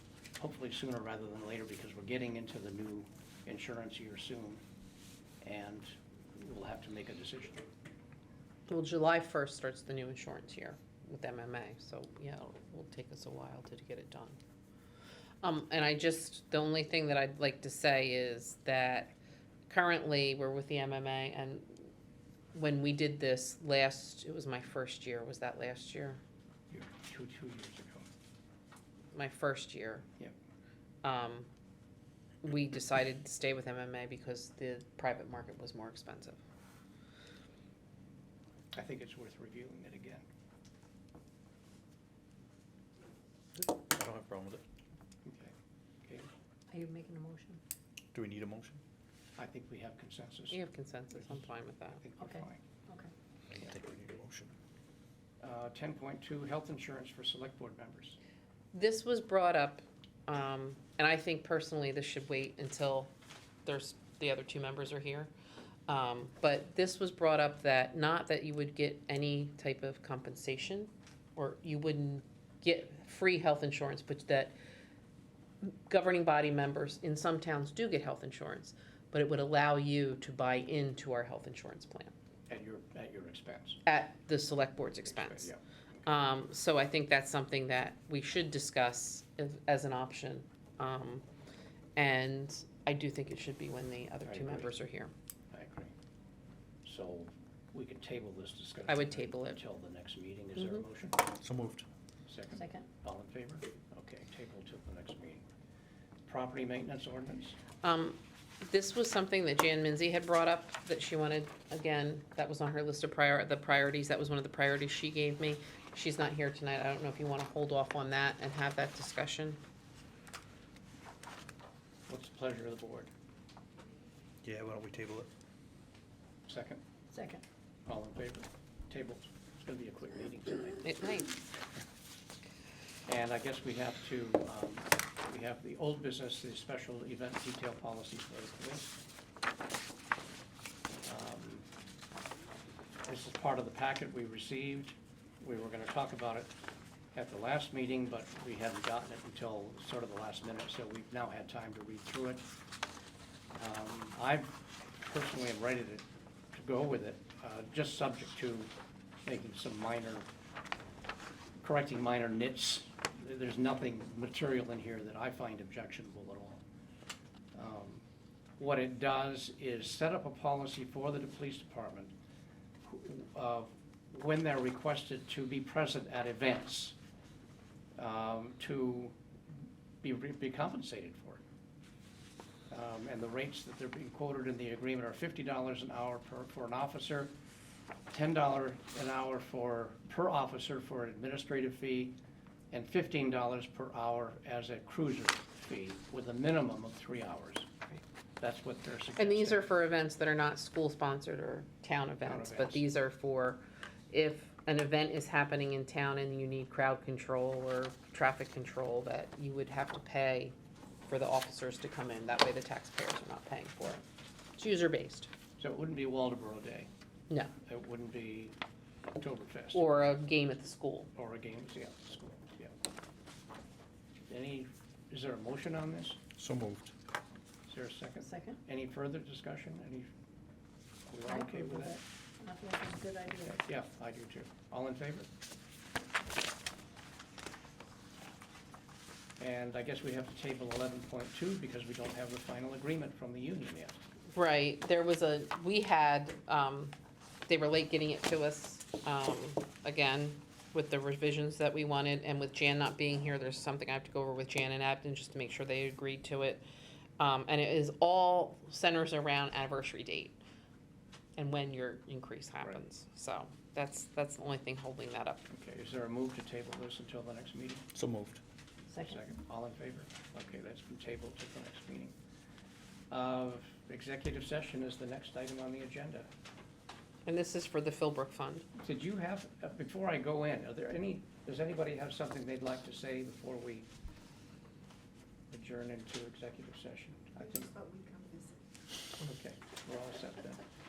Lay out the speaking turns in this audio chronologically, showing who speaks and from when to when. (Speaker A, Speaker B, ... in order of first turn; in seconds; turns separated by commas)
Speaker A: 0.4-4.6, Speaker A: 5.4-7.7, Speaker B: 8.7-14.4, Speaker B: 15.4-19.1, Speaker B: 19.7-21.9, Speaker B: 22.5-26.2, Speaker A: 26.7-28.0, Speaker B: 29.1-30.1, Speaker B: 31.0-31.5, Speaker B: 32.4-36.4, Speaker A: 38.7-40.2, Speaker C: 43.5-44.6, Speaker A: 45.2-45.5, Speaker D: 46.7-47.6, Speaker C: 48.1-48.8, Speaker A: 49.4-50.6, Speaker B: 50.5-52.0, Speaker A: 51.2-51.4, Speaker A: 52.0-52.6, Speaker D: 52.2-53.1, Speaker C: 53.5-54.5, Speaker A: 55.4-58.2, Speaker B: 58.7-63.1, Speaker B: 63.6-65.3, Speaker B: 65.9-74.5, Speaker B: 75.6-82.1, Speaker A: 82.5-83.8, Speaker B: 83.8-85.5, Speaker A: 85.0-85.6, Speaker B: 86.0-91.2, Speaker B: 92.0-95.1, Speaker A: 94.2-94.7, Speaker A: 95.5-95.9, Speaker A: 96.8-101.2, Speaker B: 98.9-99.6, Speaker C: 101.4-101.8, Speaker A: 102.2-105.4, Speaker D: 102.5-102.8, Speaker A: 106.2-107.6, Speaker B: 107.8-119.6, Speaker A: 122.1-123.1, Speaker C: 124.4-125.3, Speaker A: 126.5-126.8, Speaker D: 127.1-127.4, Speaker A: 127.9-130.8, Speaker B: 130.8-131.3, Speaker A: 133.1-138.9, Speaker A: 141.0-141.7, Speaker A: 143.1-146.5, Speaker A: 147.1-152.4, Speaker A: 153.6-158.7, Speaker A: 159.2-160.3, Speaker A: 161.6-166.6, Speaker A: 167.5-168.0, Speaker A: 168.6-172.1, Speaker A: 172.8-176.9, Speaker A: 177.9-179.2, Speaker A: 180.0-181.4, Speaker A: 182.7-187.3, Speaker A: 188.1-192.2, Speaker A: 192.7-197.8, Speaker A: 198.4-199.7, Speaker B: 199.2-210.5, Speaker A: 202.2-202.8, Speaker B: 211.1-214.0, Speaker B: 214.6-215.3, Speaker A: 215.6-216.9, Speaker A: 217.6-218.5, Speaker A: 219.2-219.8, Speaker B: 219.7-221.1, Speaker A: 221.2-222.7, Speaker A: 224.3-226.2, Speaker C: 226.3-226.9, Speaker A: 227.7-230.1, Speaker D: 228.3-228.6, Speaker A: 231.1-232.0, Speaker D: 231.3-233.6, Speaker A: 233.4-235.3, Speaker A: 239.4-244.0, Speaker B: 244.3-246.9, Speaker B: 247.5-256.6, Speaker B: 257.2-260.4, Speaker B: 261.4-265.5, Speaker A: 265.5-267.9, Speaker C: 267.9-268.4, Speaker D: 268.9-269.1, Speaker A: 268.9-272.1, Speaker A: 273.1-276.3, Speaker B: 277.2-278.7, Speaker A: 278.8-283.9, Speaker A: 285.5-287.8, Speaker D: 287.9-288.5, Speaker A: 289.2-290.6